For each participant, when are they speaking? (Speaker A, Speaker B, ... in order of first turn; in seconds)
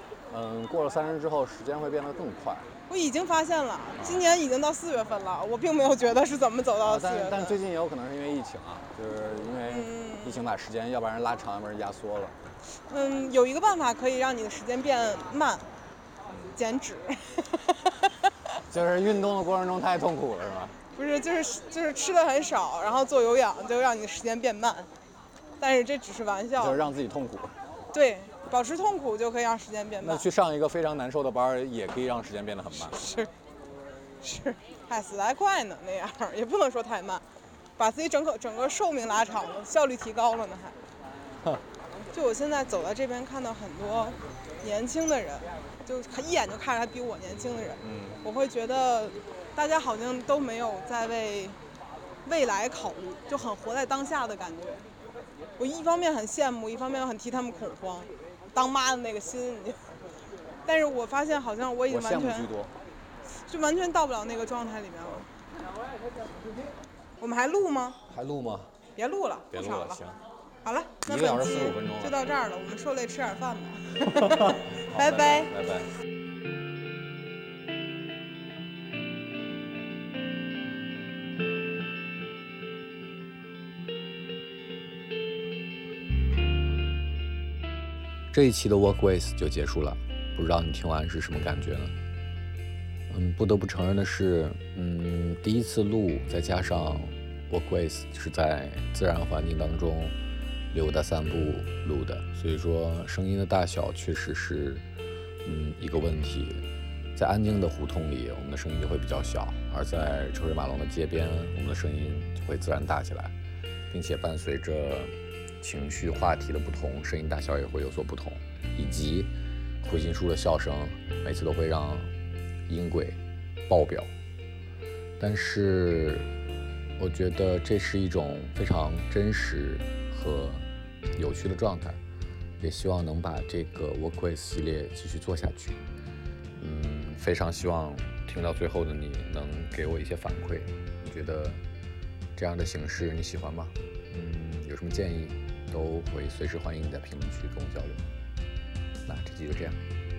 Speaker A: 0.3-2.7, 6.8-12.3, 18.7-20.8, 26.6-27.5, 30.0-33.0, 47.8-48.2, 61.9-62.7, 68.1-68.7, 69.5-70.2, 71.1-72.2, 74.2-75.9, 88.3-92.0, 93.1-100.1, 100.7-104.8, 105.4-113.3, 113.9-119.3, 119.8-122.1, 122.7-124.1, 125.2-126.3, 127.0-132.0, 132.6-135.8, 136.6-141.6, 142.3-148.1, 149.1-149.8
Speaker B: 2.9-7.6, 9.7-10.4, 12.9-15.7, 16.5-18.5, 20.9-24.9, 25.6-26.9, 27.9-30.3, 32.8-33.3, 34.2-37.2, 37.8-40.8, 42.1-51.6, 52.2-54.8, 55.6-60.0, 60.6-62.5, 63.3-65.3, 67.2-68.0, 68.9-70.0, 70.6-75.5